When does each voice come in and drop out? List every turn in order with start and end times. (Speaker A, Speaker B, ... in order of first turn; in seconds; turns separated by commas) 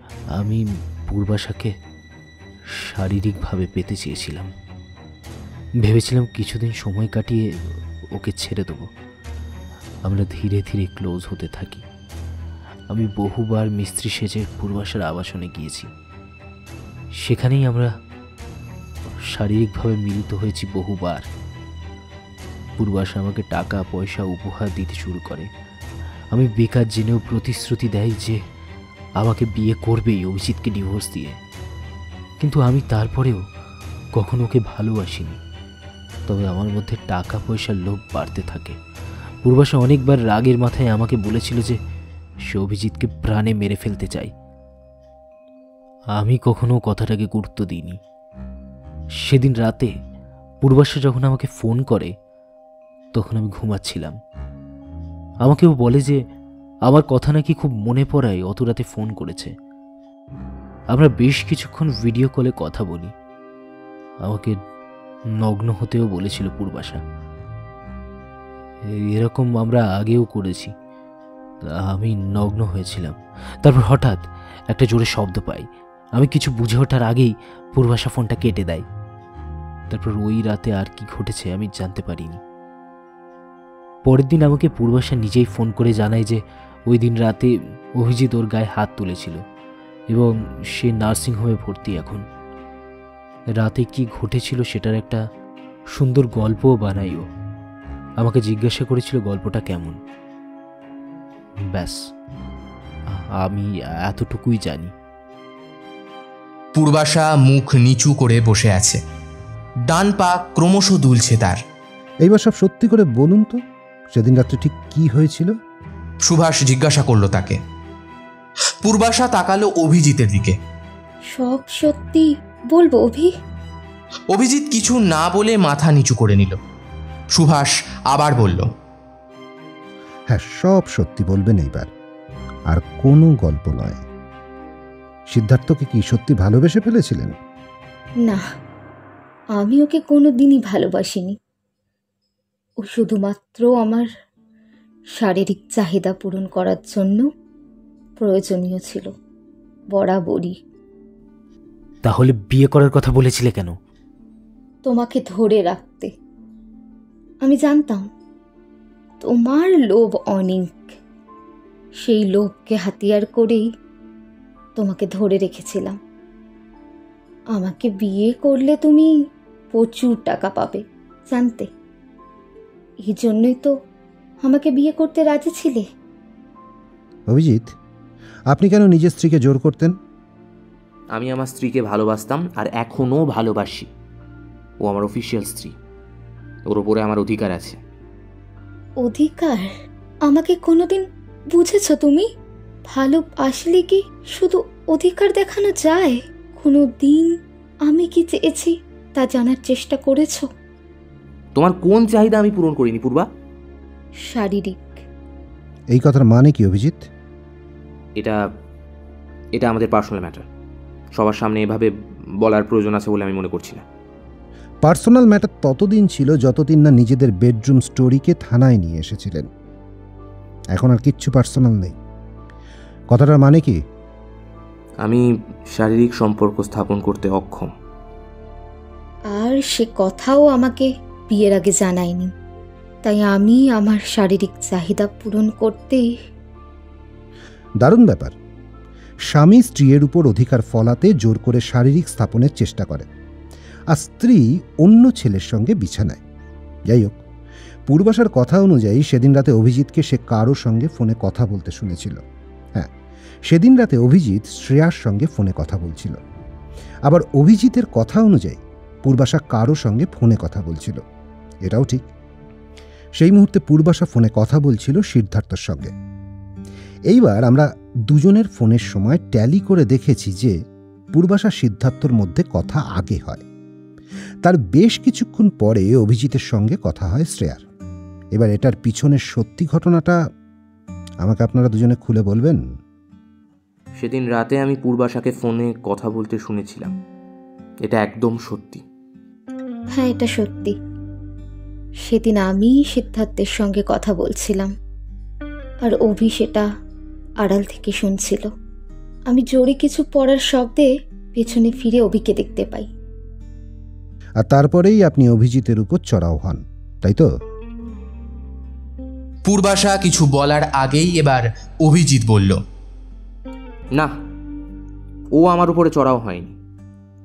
Speaker A: 0.4-1.7, Speaker A: 2.9-4.5, Speaker A: 5.8-7.5, Speaker A: 8.2-8.9, Speaker A: 10.1-11.8, Speaker A: 12.9-15.9, Speaker A: 17.2-17.9, Speaker A: 19.3-21.2, Speaker A: 22.8-25.5, Speaker A: 26.3-28.4, Speaker A: 29.2-31.4, Speaker A: 32.4-33.4, Speaker A: 34.2-35.4, Speaker A: 36.3-38.8, Speaker A: 39.4-41.8, Speaker A: 42.5-44.3, Speaker A: 46.2-48.0, Speaker A: 49.2-49.9, Speaker A: 50.6-52.1, Speaker A: 53.1-54.2, Speaker A: 55.5-56.2, Speaker A: 56.9-59.5, Speaker A: 60.9-63.1, Speaker A: 64.3-64.6, Speaker A: 65.4-67.0, Speaker A: 69.1-70.7, Speaker A: 71.9-74.2, Speaker A: 74.7-75.7, Speaker A: 76.2-78.8, Speaker A: 79.9-82.4, Speaker A: 84.1-89.4, Speaker A: 90.1-92.2, Speaker A: 93.6-95.2, Speaker A: 96.0-97.2, Speaker A: 98.2-100.0, Speaker A: 103.4-104.9, Speaker B: 106.8-109.0, Speaker B: 109.9-111.6, Speaker C: 112.2-113.6, Speaker C: 114.1-115.5, Speaker B: 116.3-117.6, Speaker B: 118.8-120.6, Speaker D: 121.3-123.3, Speaker B: 124.3-126.6, Speaker B: 127.3-128.7, Speaker C: 130.3-131.9, Speaker C: 132.7-134.0, Speaker C: 135.3-137.3, Speaker D: 139.6-141.4, Speaker D: 142.8-144.1, Speaker D: 145.1-147.3, Speaker D: 148.2-149.1, Speaker D: 149.9-150.6, Speaker A: 152.1-153.7, Speaker D: 154.8-156.1, Speaker D: 157.4-158.1, Speaker D: 159.2-160.9, Speaker D: 162.0-163.7, Speaker D: 164.8-166.0, Speaker D: 167.5-169.1, Speaker D: 169.7-171.7, Speaker D: 173.1-173.7, Speaker D: 174.4-175.8, Speaker C: 177.3-177.7, Speaker C: 178.5-179.9, Speaker E: 181.1-183.9, Speaker E: 184.8-185.7, Speaker E: 186.7-187.8, Speaker D: 189.0-189.7, Speaker D: 190.2-192.3, Speaker D: 192.9-200.5, Speaker E: 201.5-203.3, Speaker D: 204.2-205.0, Speaker C: 205.9-207.1, Speaker E: 209.5-210.4, Speaker E: 211.1-213.8, Speaker C: 214.8-219.5, Speaker C: 220.7-222.0, Speaker C: 223.1-223.8, Speaker E: 225.0-227.7, Speaker D: 229.3-232.3, Speaker D: 233.0-236.1, Speaker C: 237.8-238.3, Speaker C: 239.3-243.1, Speaker C: 243.9-246.2, Speaker C: 246.9-247.2, Speaker C: 247.9-252.2, Speaker C: 253.5-256.2, Speaker C: 257.1-261.0, Speaker C: 261.6-262.1, Speaker C: 263.2-265.9, Speaker C: 267.1-270.5, Speaker C: 271.1-273.4, Speaker C: 274.4-277.6, Speaker C: 278.3-280.2, Speaker C: 281.2-282.6, Speaker E: 284.0-286.9, Speaker E: 287.8-288.8, Speaker D: 289.9-290.8, Speaker D: 292.0-294.7, Speaker D: 295.8-296.6, Speaker D: 297.4-298.5, Speaker D: 299.3-302.9, Speaker C: 304.4-307.3, Speaker B: 309.4-312.6, Speaker E: 315.4-316.5